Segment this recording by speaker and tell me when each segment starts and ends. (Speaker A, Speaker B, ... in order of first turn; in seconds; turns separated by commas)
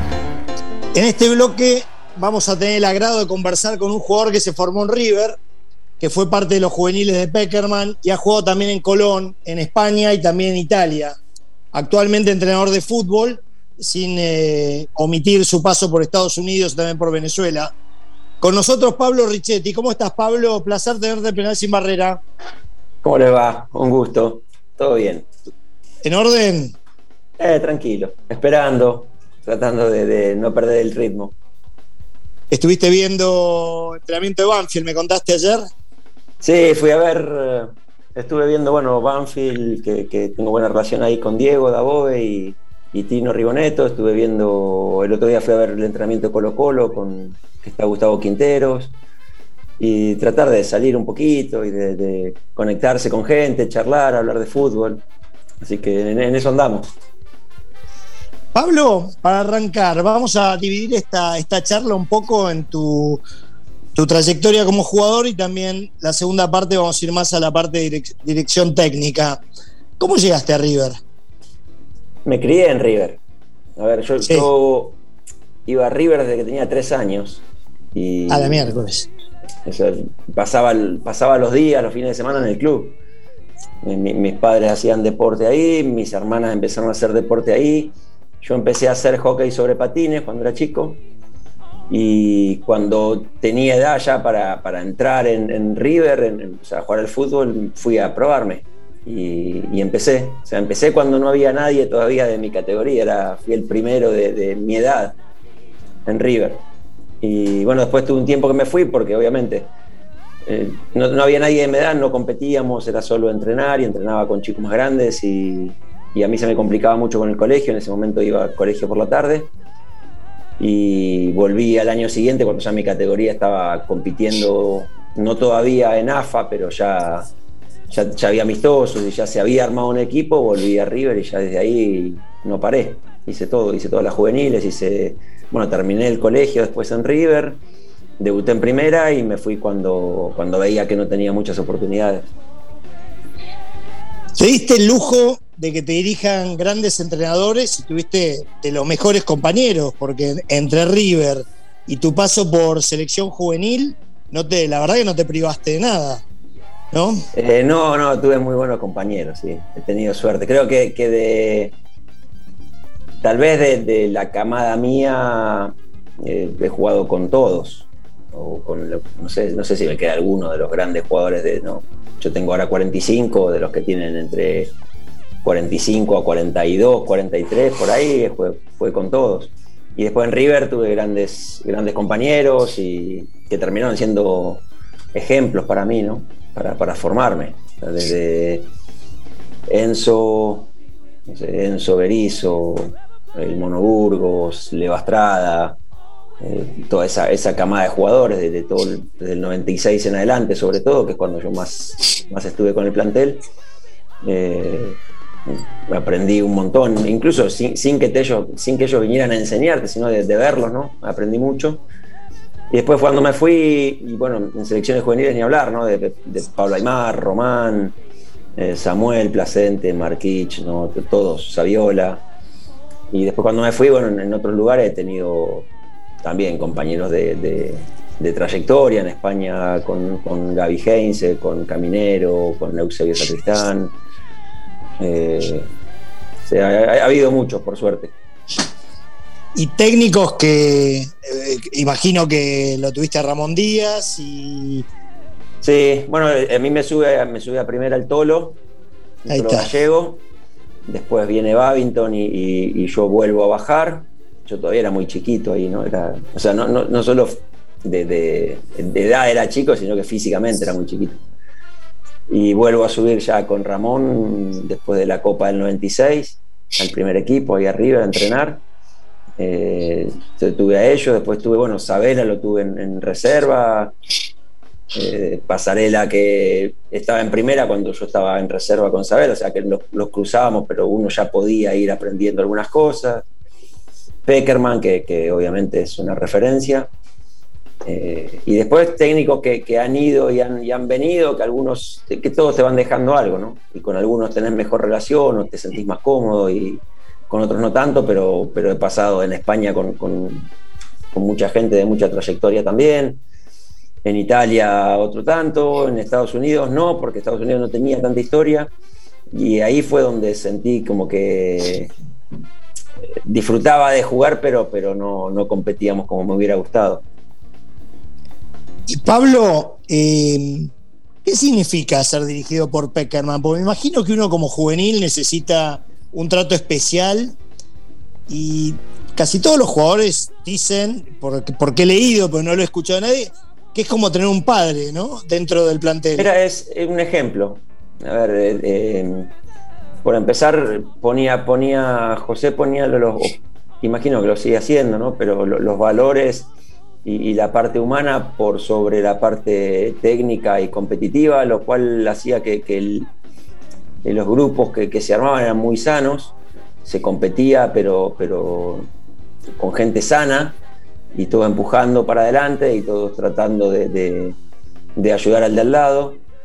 Speaker A: 0.9-5.4, Speaker A: 6.0-11.2, Speaker A: 11.7-17.7, Speaker A: 18.4-22.2, Speaker B: 23.0-25.3, Speaker A: 26.0-26.7, Speaker B: 27.4-31.3, Speaker A: 32.5-35.7, Speaker B: 36.4-48.9, Speaker B: 49.8-55.0, Speaker B: 55.6-56.9, Speaker A: 58.5-63.2, Speaker A: 64.0-69.4, Speaker A: 70.0-71.0, Speaker B: 72.2-73.2, Speaker B: 73.8-75.0, Speaker A: 74.2-74.5, Speaker B: 75.7-77.4, Speaker B: 77.9-78.7, Speaker A: 78.3-79.1, Speaker B: 79.7-83.0, Speaker B: 83.8-91.0, Speaker B: 91.9-105.2, Speaker B: 106.1-106.6, Speaker B: 107.2-109.7, Speaker B: 110.5-119.5, Speaker B: 120.6-127.3, Speaker B: 127.9-137.6, Speaker B: 138.2-142.3, Speaker A: 144.4-156.2, Speaker A: 156.9-157.3, Speaker B: 157.3-161.7, Speaker B: 163.2-174.7, Speaker B: 175.4-184.6, Speaker B: 185.1-188.7, Speaker B: 189.7-190.7, Speaker B: 191.3-195.8, Speaker B: 196.4-203.4, Speaker B: 204.2-211.8, Speaker B: 212.7-217.9, Speaker B: 218.6-222.2, Speaker B: 223.1-225.7, Speaker B: 226.2-233.9, Speaker B: 235.0-235.7, Speaker B: 236.5-238.1, Speaker A: 239.6-244.9, Speaker B: 245.6-248.6, Speaker B: 249.3-250.2, Speaker A: 249.3-249.7, Speaker B: 250.9-261.2, Speaker B: 262.3-268.6, Speaker B: 269.4-273.9, Speaker B: 274.9-283.3, Speaker B: 284.3-286.9, Speaker B: 287.9-300.5, Speaker B: 301.1-303.2, Speaker B: 304.0-308.7, Speaker B: 309.3-311.9, Speaker B: 313.2-317.0, Speaker A: 318.9-320.7, Speaker A: 321.2-327.4, Speaker A: 328.3-336.3, Speaker B: 336.2-339.3, Speaker B: 340.0-346.5, Speaker B: 347.0-353.1, Speaker B: 354.0-358.9, Speaker B: 359.6-360.6, Speaker B: 361.1-364.4, Speaker B: 365.0-366.2